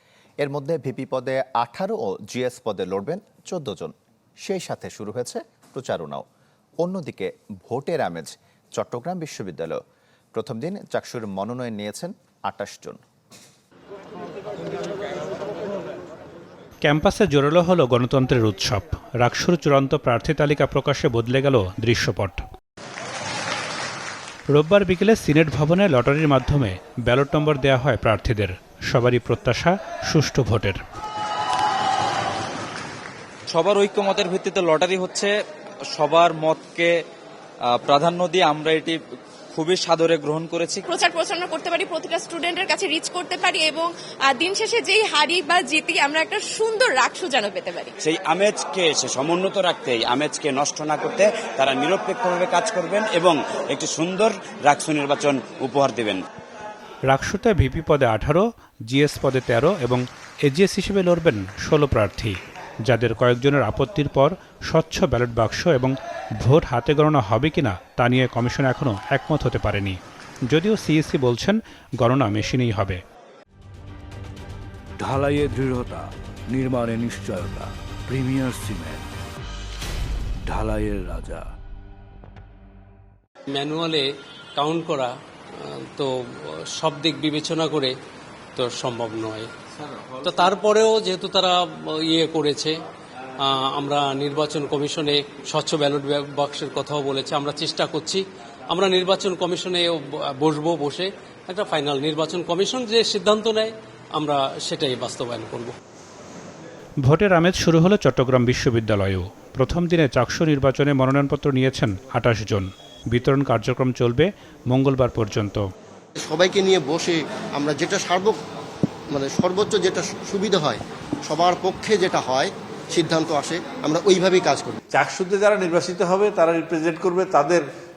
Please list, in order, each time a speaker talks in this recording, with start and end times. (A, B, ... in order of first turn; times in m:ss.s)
0:00.4-0:06.2 A
0:06.8-0:09.8 A
0:10.3-0:13.0 A
0:16.8-0:22.4 B
0:24.5-0:30.8 B
0:33.5-0:35.3 C
0:35.9-0:37.0 C
0:37.7-0:39.0 C
0:39.5-0:40.8 C
0:40.9-0:47.9 D
0:48.0-0:56.2 E
0:57.1-1:10.0 B
1:10.5-1:13.0 B
1:15.0-1:19.0 F
1:20.4-1:21.5 F
1:23.5-1:26.1 G
1:26.8-1:27.9 G
1:28.6-1:29.5 G
1:30.2-1:32.7 G
1:33.4-1:45.7 G
1:47.0-1:55.6 B
1:56.3-1:58.3 H
1:59.1-2:04.7 H
2:04.9-2:07.6 I